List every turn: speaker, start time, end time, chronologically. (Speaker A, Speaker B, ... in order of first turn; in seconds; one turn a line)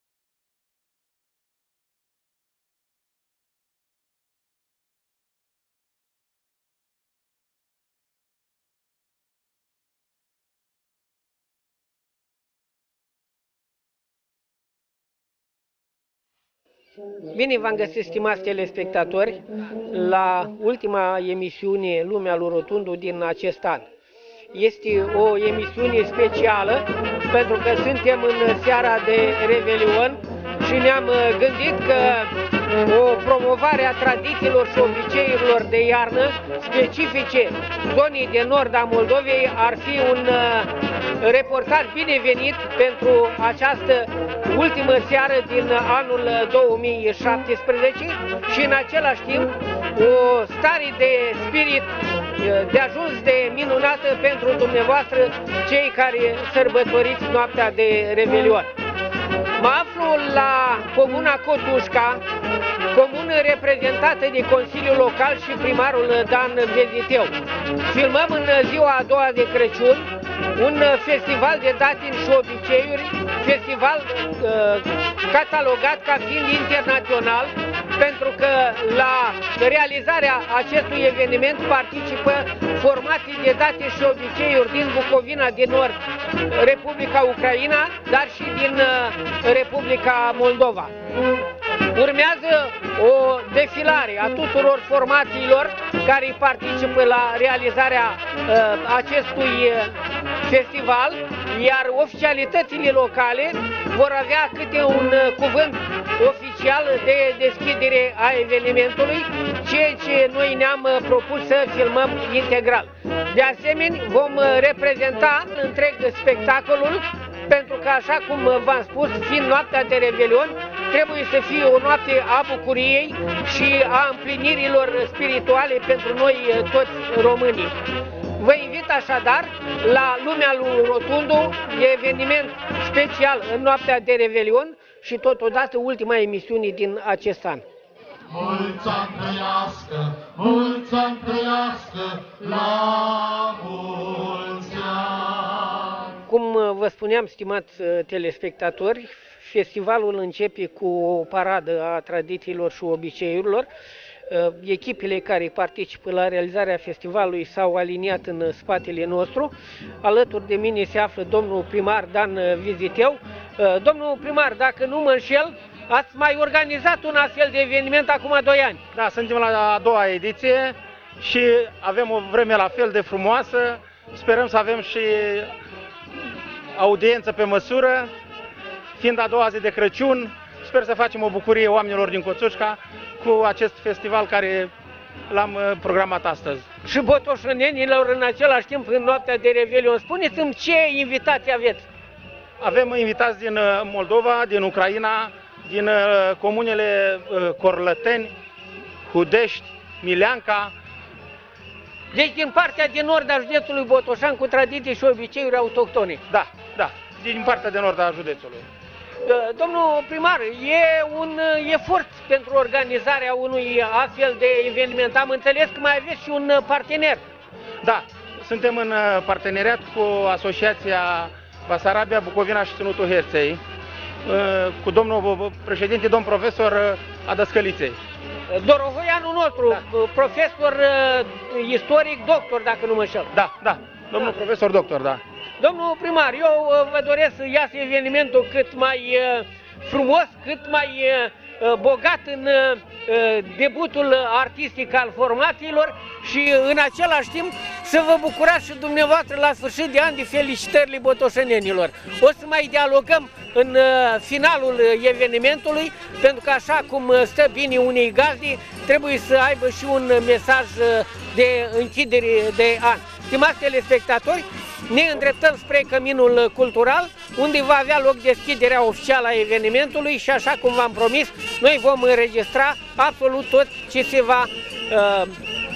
Speaker A: 17.3-23.9
Speaker A: 24.5-58.7
Speaker A: 59.6-62.2
Speaker A: 62.9-91.0
Speaker A: 91.9-127.8
Speaker A: 128.4-137.7
Speaker B: 138.3-146.0
Speaker A: 146.3-153.7
Speaker A: 154.3-168.8
Speaker C: 168.9-175.5
Speaker C: 176.8-178.1
Speaker C: 179.0-184.7
Speaker C: 185.3-186.7
Speaker A: 186.9-191.9
Speaker C: 192.6-198.4
Speaker C: 199.1-200.7
Speaker A: 202.1-206.2
Speaker C: 206.3-208.7
Speaker A: 209.2-217.2
Speaker C: 217.8-223.6
Speaker C: 224.3-228.0
Speaker A: 228.5-233.3
Speaker C: 233.3-235.2
Speaker A: 235.6-275.4